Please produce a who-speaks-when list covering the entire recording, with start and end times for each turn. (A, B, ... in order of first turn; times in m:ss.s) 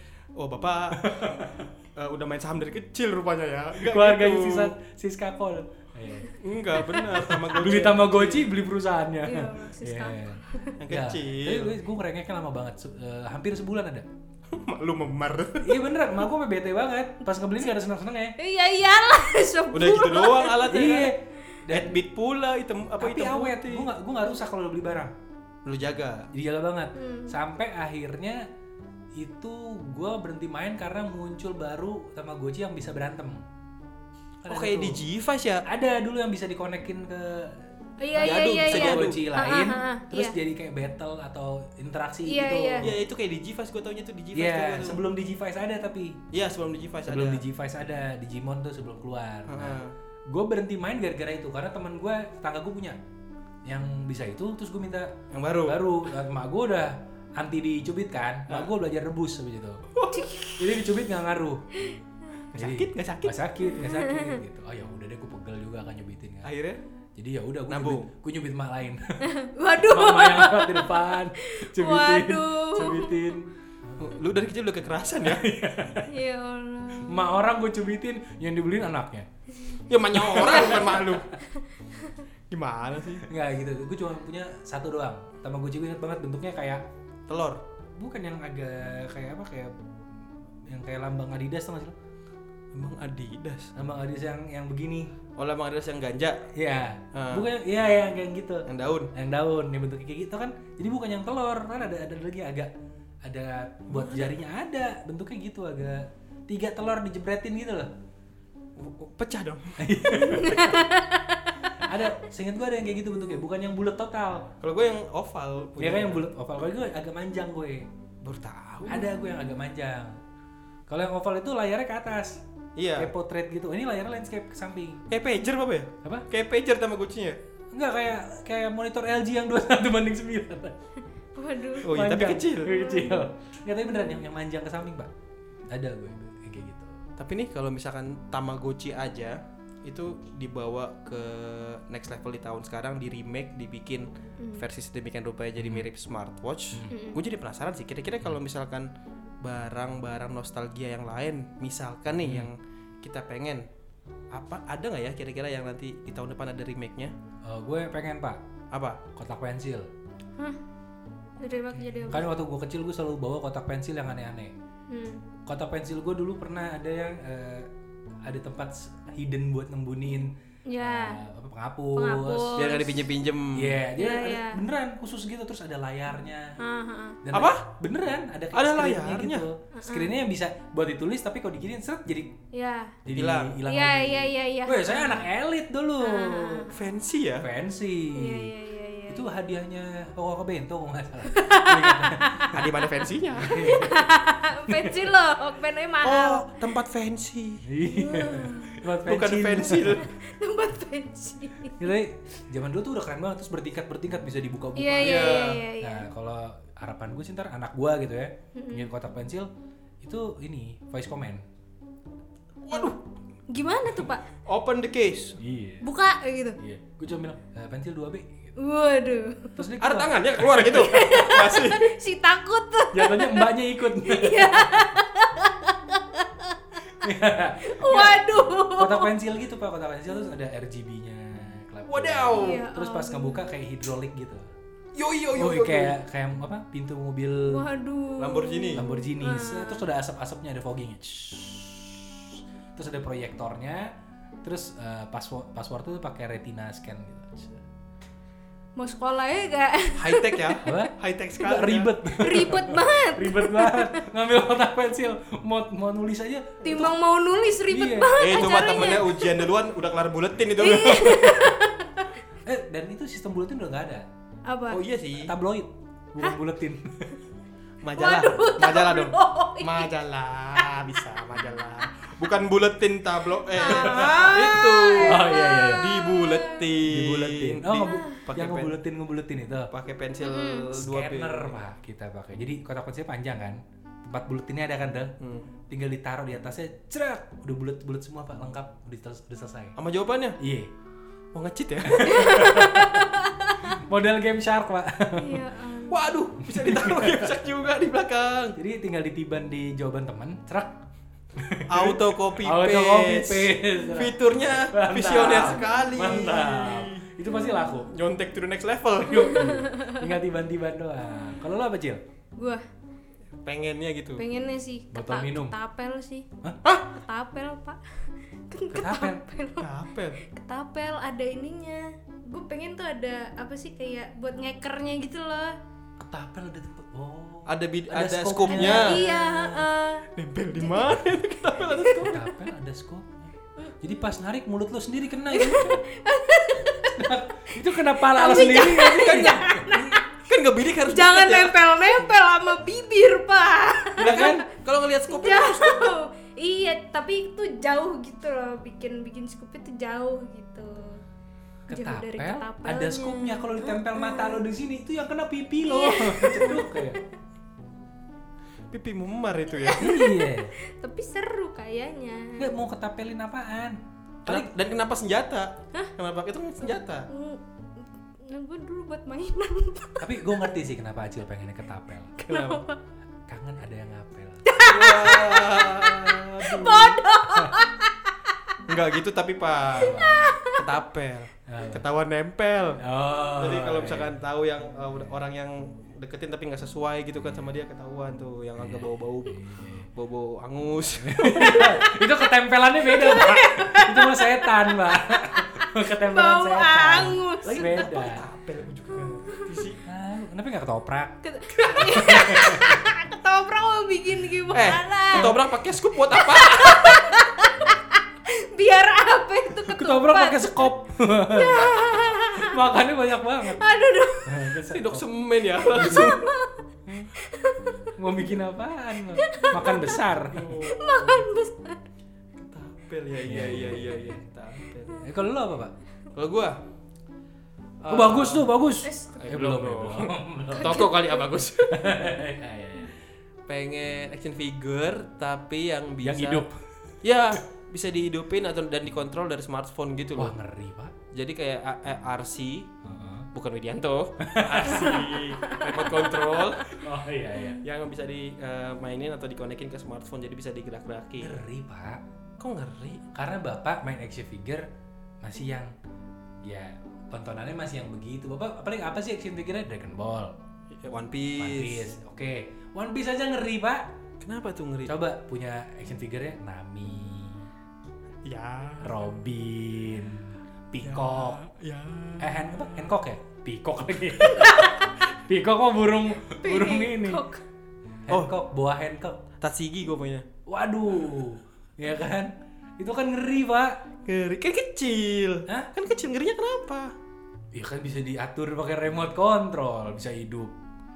0:00.4-0:01.3 A
0:01.0-0:01.7 B
0:01.9-0:04.7 A
0:03.7-0:14.1 B
0:06.4-0:08.5 A
0:09.2-0:10.8 C
0:10.8-0:11.8 A
0:14.5-0:15.8 A
0:15.6-0:18.4 B
0:18.4-0:20.9 C
0:19.7-0:21.1 A
0:20.7-0:22.0 B
0:21.7-0:23.9 A
0:23.0-0:25.1 B
0:25.6-0:26.3 A
0:26.3-0:28.5 B
0:26.9-0:27.4 C
0:29.2-0:33.4 B
0:34.4-0:35.0 B
0:34.5-0:35.6 A
0:35.6-0:43.0 B
0:38.0-0:40.3 C
0:38.2-0:39.2 A
0:42.2-0:42.9 C
0:42.8-0:45.0 A
0:44.3-0:46.2 B
0:46.3-0:47.4 A
0:47.1-0:53.0 B
0:49.4-0:49.9 A
0:53.6-0:59.8 B
0:55.3-0:55.8 A
0:59.9-1:00.5 A
1:00.1-1:00.5 C
1:00.6-1:01.6 B
1:02.5-1:03.8 A
1:02.5-1:06.5 B
1:03.7-1:04.4 C
1:06.4-1:06.8 A
1:07.2-1:09.3 B
1:07.7-1:08.1 A
1:09.2-1:13.2 C
1:09.8-1:13.5 B
1:14.0-1:15.4 A
1:15.2-1:16.1 B
1:16.0-1:17.2 C
1:17.0-1:19.3 B
1:19.9-1:21.3 A
1:20.1-1:21.4 B
1:22.5-1:23.3 A
1:23.2-1:26.8 B
1:27.3-1:27.6 A
1:28.0-1:29.7 B
1:30.7-1:31.9 B
1:32.7-1:33.7 A
1:33.8-1:35.1 B
1:35.4-1:36.5 A
1:36.5-1:42.7 B
1:37.1-1:37.5 A
1:38.7-1:39.1 A
1:43.2-1:47.9 B
1:48.8-1:49.9 A
1:49.8-1:50.9 B
1:50.2-1:51.4 C
1:51.8-1:54.5 B
1:54.6-1:56.2 A
1:55.8-1:57.9 B
1:58.2-1:59.0 A
1:58.8-2:00.2 B
2:00.9-2:02.4 B
2:02.8-2:03.1 A
2:03.0-2:05.0 B
2:05.1-2:07.4 A
2:07.7-2:10.8 B
2:11.3-2:12.0 C
2:11.8-2:12.7 A
2:11.9-2:15.1 B
2:12.7-2:13.2 C
2:15.7-2:17.0 B
2:17.2-2:28.9 A
2:24.4-2:24.6 C
2:25.6-2:25.9 B
2:26.7-2:27.0 B
2:26.9-2:27.2 C
2:29.4-2:33.7 A
2:32.2-2:32.5 B
2:34.3-2:37.1 A
2:37.4-2:38.4 B
2:38.7-2:39.0 A
2:39.1-2:39.9 B
2:41.4-2:42.3 C
2:42.0-2:44.5 B
2:44.9-2:45.2 C
2:45.4-2:47.7 B
2:48.2-2:52.8 B
2:50.7-2:51.2 C
2:52.0-2:53.0 C
2:52.6-2:53.8 A
2:53.5-2:56.6 B
2:54.0-2:54.6 C
2:56.6-2:57.2 C
2:57.2-3:02.4 B
2:57.3-2:57.6 A
2:58.5-2:59.4 A
2:59.7-3:00.1 C
3:02.5-3:03.0 C
3:03.0-3:06.7 B
3:03.1-3:03.6 A
3:03.6-3:05.3 C
3:06.0-3:06.7 C
3:06.7-3:07.5 A
3:07.4-3:08.5 B
3:08.1-3:09.2 C
3:09.1-3:12.4 B
3:11.2-3:12.6 C
3:12.5-3:13.9 A
3:13.4-3:14.1 B
3:13.6-3:16.5 C
3:14.7-3:15.0 B
3:16.0-3:17.6 A
3:17.6-3:20.0 B
3:17.8-3:18.8 C
3:19.0-3:20.1 A
3:20.0-3:21.8 C
3:21.8-3:29.5 B
3:24.8-3:26.1 C
3:25.0-3:25.6 A
3:28.5-3:28.9 C
3:30.0-3:31.4 B
3:32.6-3:33.0 A
3:33.5-3:34.2 C
3:34.4-3:35.4 A
3:35.4-3:35.9 B
3:35.8-3:36.6 C
3:36.6-3:38.5 B
3:38.6-3:39.6 C
3:39.6-3:41.2 B
3:39.8-3:41.9 A
3:40.6-3:46.8 C
3:42.9-3:44.9 B
3:47.0-3:54.5 B
3:47.6-3:49.1 C
3:51.8-3:52.6 A
3:52.3-3:53.5 C
3:54.9-3:56.0 A
3:55.3-3:57.7 B
3:57.5-3:59.8 C
3:58.2-3:58.8 A
3:58.8-4:07.6 B
4:08.8-4:10.6 C
4:10.0-4:12.4 A
4:10.6-4:17.0 B
4:12.2-4:14.0 C
4:16.6-4:19.4 C
4:17.7-4:18.6 B
4:18.2-4:21.6 A
4:20.6-4:22.1 C
4:22.4-4:24.1 B
4:24.4-4:24.8 C
4:24.7-4:25.3 A
4:25.2-4:27.2 B
4:27.8-4:38.8 A
4:28.0-4:29.9 C
4:31.4-4:31.9 C
4:33.5-4:36.6 C
4:35.0-4:35.8 B
4:36.8-4:39.7 B
4:37.8-4:38.1 C
4:39.7-4:41.6 A
4:40.2-4:40.7 C
4:40.7-4:45.2 B
4:45.2-4:45.5 A
4:45.7-4:49.7 B
4:49.8-4:50.4 A
4:50.4-4:50.7 B
4:51.3-4:52.6 A
4:51.8-4:53.0 B
4:52.0-4:53.6 C
4:53.7-4:55.4 B
4:55.2-4:56.0 C
4:55.9-4:58.6 A
4:56.4-4:57.3 B
4:58.6-5:00.8 B
5:01.4-5:07.9 B
5:01.7-5:07.1 A
5:07.9-5:09.6 A
5:09.1-5:12.0 B
5:09.2-5:10.1 C
5:12.4-5:12.6 C
5:13.4-5:14.2 A
5:14.2-5:16.3 C
5:14.9-5:15.5 B
5:16.6-5:16.9 A
5:16.9-5:17.8 C
5:18.5-5:25.6 C
5:18.7-5:19.2 B
5:19.6-5:20.2 A
5:26.0-5:29.6 B
5:27.4-5:29.0 A
5:28.4-5:31.0 C
5:30.1-5:32.2 A
5:31.8-5:32.1 C
5:32.1-5:35.8 B
5:35.3-5:37.1 C
5:36.9-5:40.0 B
5:38.0-5:40.0 C
5:38.7-5:39.6 A
5:40.1-5:41.6 A
5:40.8-5:44.5 C
5:44.0-5:46.0 A
5:44.0-5:44.4 B
5:45.0-5:51.0 C
5:51.7-5:57.0 B
5:51.7-5:54.5 C
5:55.6-5:56.8 C
5:58.7-5:59.8 A
5:59.5-6:02.5 C
5:59.8-6:00.5 B
6:02.4-6:04.5 B
6:04.2-6:07.1 A
6:07.1-6:07.4 C
6:08.2-6:10.1 C
6:10.0-6:12.2 B
6:12.2-6:12.8 C
6:12.3-6:12.6 A
6:13.3-6:14.5 B
6:14.4-6:18.0 C
6:14.6-6:17.0 A
6:17.3-6:17.6 B
6:18.7-6:31.7 A
6:19.8-6:20.3 B
6:19.8-6:20.8 C
6:21.5-6:21.8 B
6:22.8-6:24.2 B
6:28.6-6:29.9 B
6:31.0-6:38.2 B
6:31.3-6:32.2 C
6:32.8-6:37.7 C
6:37.5-6:39.8 A
6:39.8-6:41.2 B
6:41.2-6:45.4 C
6:41.7-6:42.7 B
6:44.5-6:47.1 A
6:46.2-6:50.7 C
6:49.6-6:53.6 B
6:51.3-6:52.6 C
6:53.5-6:54.4 C
6:54.2-6:55.0 B
6:54.7-6:56.4 A
6:55.6-6:56.2 B
6:55.8-6:56.5 C
6:56.8-6:57.1 B
6:57.2-6:57.8 C
6:57.9-7:00.5 B
6:59.1-7:00.0 C
7:00.3-7:01.2 A
7:00.6-7:01.8 C
7:02.4-7:05.0 A
7:03.2-7:04.2 B
7:05.0-7:05.7 B
7:06.1-7:06.6 A
7:07.8-7:08.5 A
7:07.9-7:10.9 B
7:08.8-7:09.3 C
7:09.1-7:11.9 A
7:10.5-7:11.3 C
7:11.7-7:12.9 B
7:13.5-7:16.4 A
7:16.0-7:16.6 B
7:17.0-7:20.3 A
7:20.2-7:20.9 B
7:21.1-7:22.7 A
7:22.8-7:23.3 B
7:23.3-7:26.8 A
7:24.2-7:25.1 B
7:25.4-7:26.2 C
7:26.6-7:27.6 B
7:27.6-7:31.4 A
7:31.2-7:32.0 B
7:32.4-7:33.0 A
7:33.1-7:34.7 B
7:35.2-7:35.7 B
7:36.4-7:40.4 B
7:40.7-7:41.9 A
7:41.4-7:43.9 B
7:44.2-7:45.0 A
7:44.9-7:47.5 B
7:48.2-7:49.0 A
7:48.8-7:51.4 B
7:50.8-7:52.4 A
7:52.2-7:57.2 B
7:54.3-7:54.9 C
7:56.4-7:57.4 C
7:58.0-7:59.2 B
7:58.1-7:58.3 A
7:59.4-8:00.2 A
8:00.4-8:03.8 B
8:04.0-8:06.9 A
8:07.5-8:10.5 B